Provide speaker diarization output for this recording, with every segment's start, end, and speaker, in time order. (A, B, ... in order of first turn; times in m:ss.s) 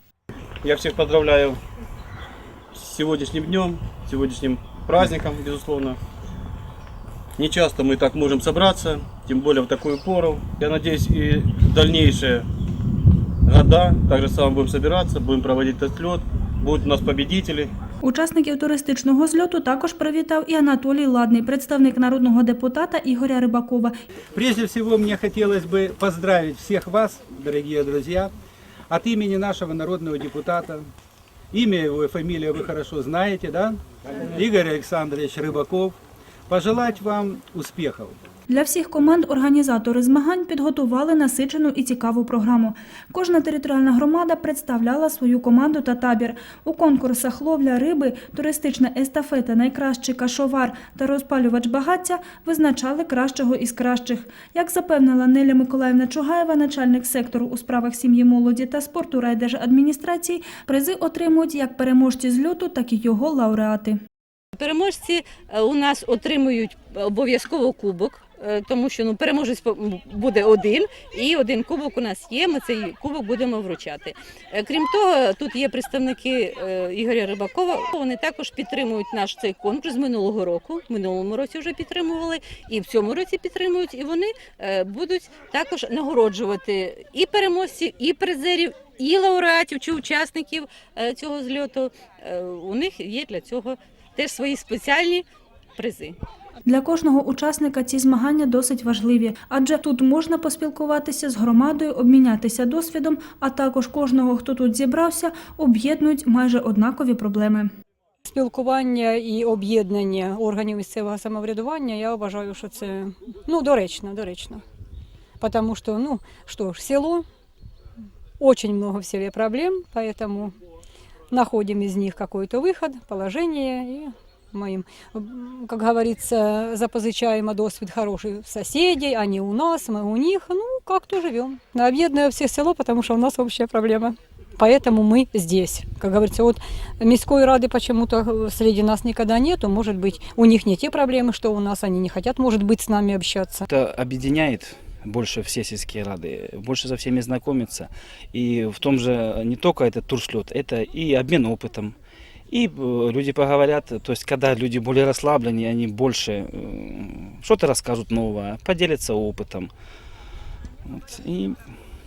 0:00.7-0:01.6 A
0:02.8-0:06.0 A
0:07.4-0:12.4 A
0:13.5-0:17.7 A
0:18.0-0:23.9 B
0:24.3-0:28.3 C
0:28.9-0:30.9 C
0:31.5-0:36.0 C
0:36.5-0:38.2 C
0:38.5-1:04.0 B
1:04.6-1:35.2 D
1:35.8-1:36.2 D
1:36.6-1:47.7 B
1:48.2-1:54.6 E
1:55.4-1:57.2 E
1:58.4-2:00.5 E
2:01.3-2:23.7 E
2:23.7-2:32.0 F
2:32.5-2:39.7 F
2:40.9-2:41.6 F